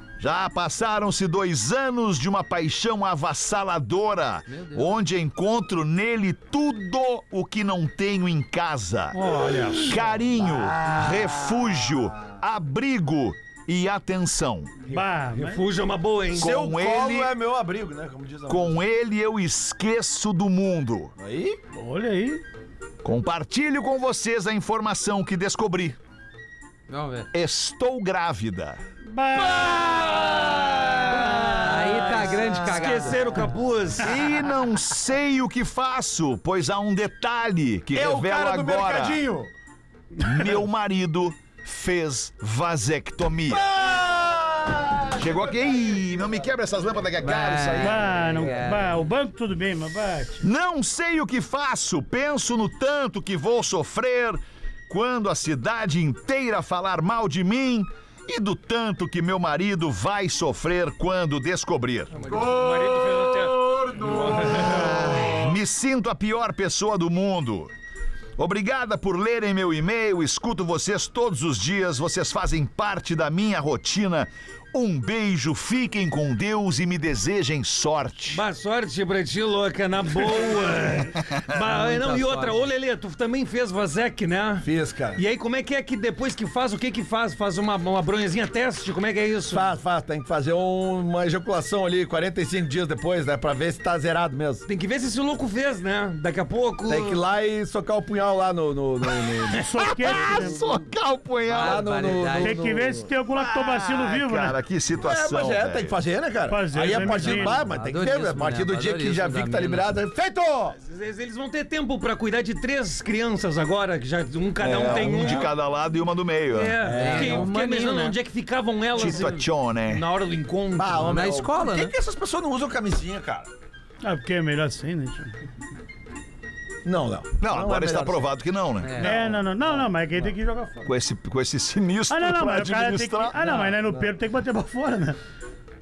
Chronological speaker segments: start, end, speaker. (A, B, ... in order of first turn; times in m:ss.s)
0:00.2-0:09.3 A
0:04.5-0:04.9 B
0:09.1-0:10.0 C
0:09.7-0:12.1 D
0:09.8-0:14.7 A
0:14.8-0:15.6 E
0:14.9-0:16.6 C
0:16.3-0:17.3 A
0:16.3-0:18.8 D
0:18.5-0:21.1 A
0:21.2-0:21.6 D
0:21.7-0:22.4 E
0:23.0-0:26.0 A
0:26.9-0:27.3 B
0:27.3-0:28.8 A
0:29.0-0:30.5 E
0:29.5-0:33.0 D
0:29.6-0:34.2 C
0:31.0-0:31.7 E
0:31.5-0:33.2 B
0:34.0-0:39.2 A
0:37.9-0:39.5 D
0:40.2-0:43.7 A
0:43.5-0:46.3 D
0:45.1-0:48.3 A
0:47.2-0:48.9 B
0:47.8-0:50.4 E
0:48.2-0:48.6 D
0:50.4-1:07.7 A
1:02.1-1:05.3 C
1:08.4-1:18.4 A
1:18.3-1:29.7 C
1:21.7-1:22.6 B
1:24.6-1:25.2 D
1:29.5-1:34.6 D
1:34.7-1:37.2 C
1:36.9-1:40.4 D
1:39.5-1:40.6 E
1:39.8-1:41.9 A
1:41.5-1:42.6 B
1:41.5-1:43.1 D
1:42.4-1:44.6 E
1:43.3-1:46.0 A
1:45.0-1:50.8 D
1:46.5-1:47.6 E
1:47.2-1:50.0 B
1:50.8-1:55.5 C
1:54.6-1:56.8 A
1:54.6-1:55.5 D
1:56.5-2:01.3 C
1:56.8-1:57.5 D
1:56.9-1:58.2 B
1:58.9-2:00.0 A
2:00.8-2:03.5 D
2:01.0-2:01.9 B
2:04.0-2:05.4 E
2:06.8-2:08.3 D
2:07.4-2:09.2 A
2:08.8-2:09.2 B
2:09.0-2:09.8 D
2:09.0-2:10.9 E
2:10.8-2:13.4 A
2:12.1-2:15.2 E